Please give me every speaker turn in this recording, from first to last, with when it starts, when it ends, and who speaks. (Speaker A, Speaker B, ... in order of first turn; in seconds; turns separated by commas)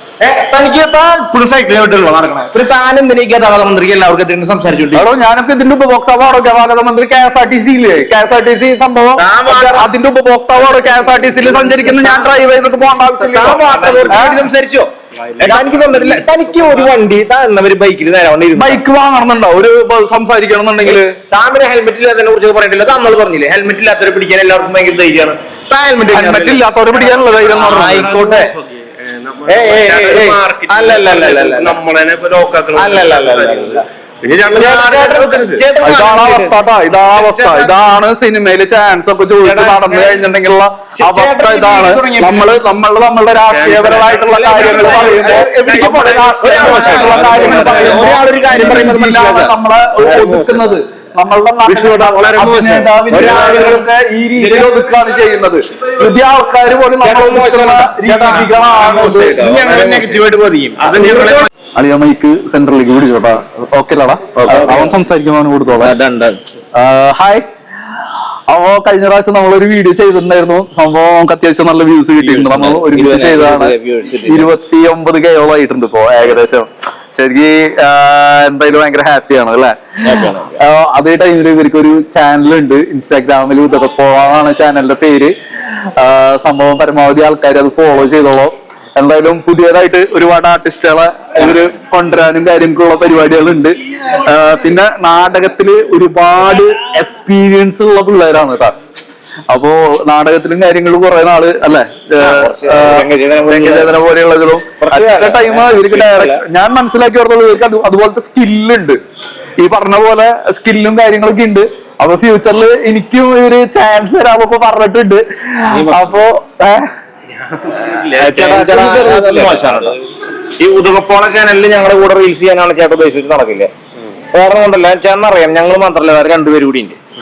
Speaker A: 0.2-5.0, Speaker B: 4.9-14.4, Speaker A: 9.2-9.9, Speaker C: 10.6-11.9, Speaker A: 13.2-18.8, Speaker C: 13.7-14.3, Speaker C: 15.2-17.0, Speaker B: 18.6-21.1, Speaker A: 20.9-26.6, Speaker B: 26.1-28.4, Speaker C: 27.3-35.6, Speaker A: 27.5-28.5, Speaker A: 29.5-31.8, Speaker A: 32.7-33.8, Speaker A: 34.5-36.5, Speaker B: 35.8-59.5, Speaker A: 37.1-37.8, Speaker A: 39.4-40.2, Speaker A: 41.0-42.5, Speaker C: 43.5-48.4, Speaker A: 44.3-50.4, Speaker A: 51.7-53.9, Speaker C: 52.0-52.5, Speaker C: 53.1-53.7, Speaker A: 57.0-58.5, Speaker C: 58.4-60.2, Speaker A: 59.2-61.5, Speaker C: 60.8-61.5, Speaker B: 61.7-65.9, Speaker A: 64.4-65.0, Speaker A: 65.7-66.4, Speaker B: 66.8-67.4, Speaker B: 68.5-73.7, Speaker A: 72.2-74.5, Speaker B: 74.3-85.3, Speaker A: 80.0-80.5, Speaker B: 86.0-98.7, Speaker B: 99.5-109.0, Speaker A: 102.2-104.0, Speaker A: 104.8-106.4, Speaker B: 109.6-116.9, Speaker C: 117.4-120.0, Speaker A: 117.8-120.0, Speaker A: 120.6-123.7, Speaker A: 124.3-127.0